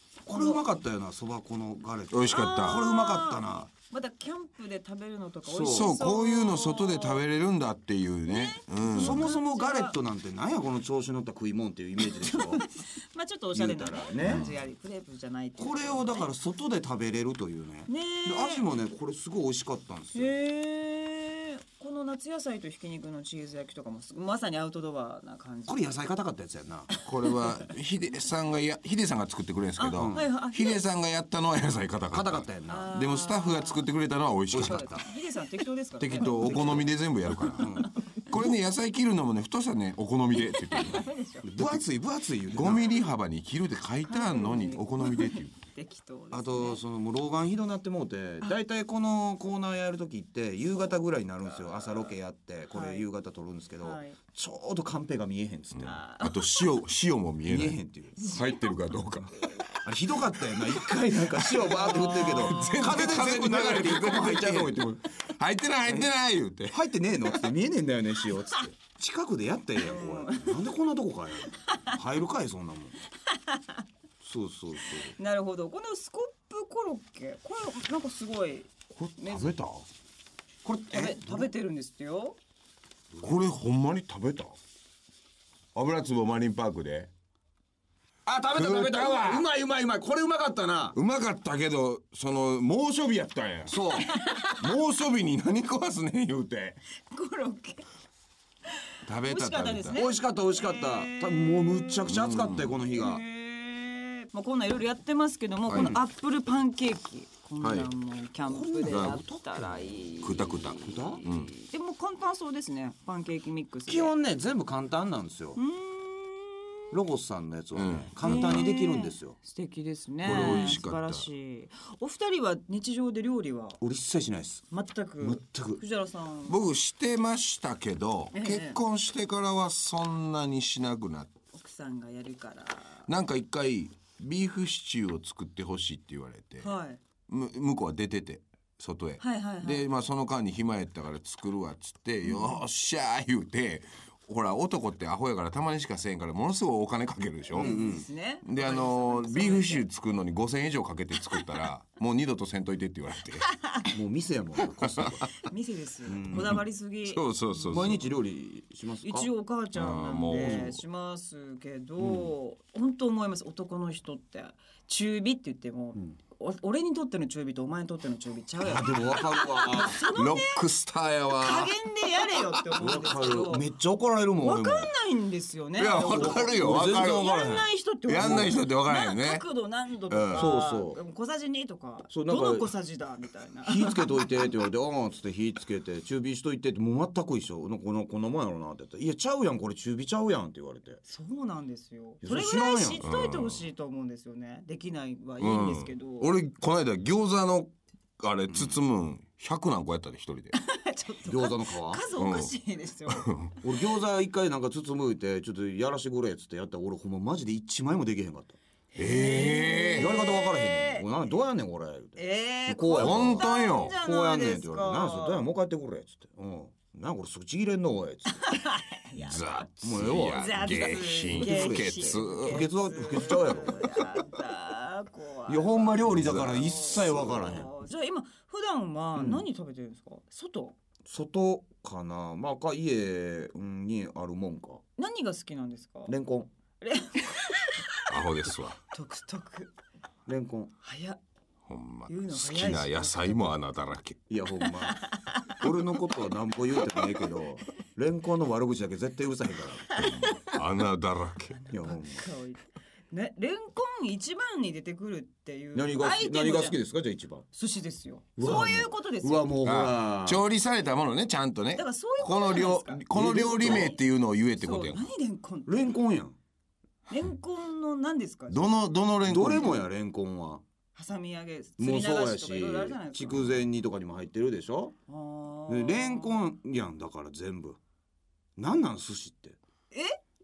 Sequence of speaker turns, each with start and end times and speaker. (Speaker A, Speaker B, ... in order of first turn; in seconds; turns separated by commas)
Speaker A: 0.2-3.7, Speaker B: 0.3-0.6, Speaker C: 2.1-2.9, Speaker B: 2.3-7.2, Speaker A: 5.4-5.9, Speaker C: 5.6-9.3, Speaker B: 8.2-9.9, Speaker A: 8.9-12.6, Speaker B: 12.1-16.3, Speaker A: 13.5-14.5, Speaker C: 14.2-14.5, Speaker A: 15.6-20.3, Speaker B: 17.9-18.7, Speaker B: 20.1-26.0, Speaker A: 25.7-26.9, Speaker B: 26.9-27.7, Speaker C: 27.0-34.9, Speaker B: 29.8-30.8, Speaker A: 30.0-30.3, Speaker A: 32.1-32.9, Speaker B: 32.7-33.9, Speaker A: 34.5-35.0, Speaker B: 34.5-36.9, Speaker C: 36.0-41.8, Speaker A: 36.3-36.9, Speaker A: 37.5-37.9, Speaker B: 40.4-41.5, Speaker A: 41.4-42.9, Speaker C: 42.5-45.5, Speaker B: 44.1-46.8, Speaker A: 46.3-56.0, Speaker B: 51.6-52.1, Speaker B: 52.7-53.1, Speaker B: 53.8-54.2, Speaker C: 55.7-59.6, Speaker B: 55.8-56.7, Speaker A: 57.4-58.1, Speaker B: 58.1-58.7, Speaker A: 59.8-64.8, Speaker C: 61.2-66.9, Speaker B: 61.6-63.3, Speaker A: 66.7-73.0, Speaker B: 69.8-70.7, Speaker B: 73.3-73.8, Speaker A: 74.2-75.2, Speaker B: 75.0-79.6, Speaker C: 79.0-79.8, Speaker A: 80.6-81.5, Speaker B: 80.9-82.4, Speaker C: 83.2-84.5, Speaker C: 85.7-87.1, Speaker A: 88.2-91.0, Speaker C: 88.5-89.5, Speaker C: 90.9-94.0, Speaker A: 93.7-94.1, Speaker B: 94.0-94.7, Speaker C: 94.5-96.8, Speaker B: 97.1-97.9, Speaker C: 99.1-100.0, Speaker B: 99.2-102.2, Speaker A: 99.8-103.2, Speaker C: 102.1-102.8, Speaker B: 102.8-114.1, Speaker C: 105.7-106.0, Speaker A: 105.7-106.0, Speaker C: 107.6-107.9, Speaker A: 108.4-109.4, Speaker C: 108.8-109.2, Speaker C: 110.2-111.5, Speaker A: 110.8-111.2, Speaker A: 113.9-115.6, Speaker B: 115.5-116.8, Speaker A: 116.9-119.4, Speaker C: 117.7-118.7, Speaker B: 118.2-123.8, Speaker C: 120.2-121.2, Speaker A: 120.2-120.8, Speaker A: 123.8-124.7, Speaker B: 124.7-126.6, Speaker A: 125.2-125.8, Speaker C: 126.5-131.3, Speaker B: 128.3-128.8, Speaker B: 131.5-133.1, Speaker C: 133.1-136.7, Speaker B: 136.6-137.0, Speaker C: 137.3-147.9, Speaker B: 139.2-139.9, Speaker B: 142.3-142.6, Speaker A: 147.5-148.0, Speaker B: 147.5-149.8, Speaker C: 148.4-153.5, Speaker A: 153.9-155.4, Speaker B: 155.4-158.1, Speaker A: 156.1-156.6, Speaker C: 156.3-158.0, Speaker A: 157.7-159.3, Speaker B: 159.0-170.6, Speaker C: 159.7-160.8, Speaker A: 162.0-162.3, Speaker A: 168.6-170.1, Speaker C: 170.1-171.7, Speaker B: 171.3-173.7, Speaker C: 172.3-172.6, Speaker A: 172.8-174.9, Speaker B: 174.4-184.4, Speaker C: 175.8-177.6, Speaker A: 175.9-178.5, Speaker C: 178.1-179.4, Speaker C: 180.1-180.5, Speaker A: 180.3-181.0, Speaker A: 182.1-182.7, Speaker A: 183.6-191.0, Speaker B: 191.1-196.3, Speaker A: 192.2-193.1, Speaker C: 193.0-193.7, Speaker C: 195.4-200.5, Speaker B: 200.5-203.3, Speaker A: 201.2-202.0, Speaker C: 202.1-202.5, Speaker C: 203.1-203.6, Speaker A: 203.6-208.6, Speaker B: 208.9-211.1, Speaker C: 208.9-210.2, Speaker A: 210.0-218.4, Speaker B: 212.2-215.4, Speaker C: 213.0-214.0, Speaker B: 218.3-230.8, Speaker C: 219.2-222.7, Speaker A: 219.8-224.0, Speaker A: 225.5-227.7, Speaker C: 226.1-227.6, Speaker A: 229.2-229.4, Speaker A: 231.1-234.8, Speaker B: 235.0-236.1, Speaker A: 236.1-236.5, Speaker B: 236.8-238.1, Speaker C: 238.1-238.8, Speaker B: 238.9-239.7, Speaker A: 240.2-240.7, Speaker B: 240.8-241.2, Speaker C: 241.7-244.3, Speaker B: 242.1-243.5, Speaker A: 244.3-250.1, Speaker B: 244.9-245.6, Speaker C: 250.0-251.6, Speaker B: 250.0-250.5, Speaker B: 251.5-256.8, Speaker A: 251.7-252.2, Speaker A: 255.7-257.5, Speaker B: 257.5-259.5, Speaker A: 258.4-260.4, Speaker C: 259.6-265.1, Speaker B: 261.7-264.0, Speaker A: 263.1-263.9, Speaker B: 264.6-265.9, Speaker A: 265.6-266.4, Speaker B: 267.1-268.7, Speaker C: 268.5-269.8, Speaker A: 269.2-270.6, Speaker B: 270.9-273.6, Speaker A: 271.8-274.9, Speaker B: 275.1-276.4, Speaker A: 275.7-277.8, Speaker A: 278.6-279.6, Speaker B: 279.9-280.2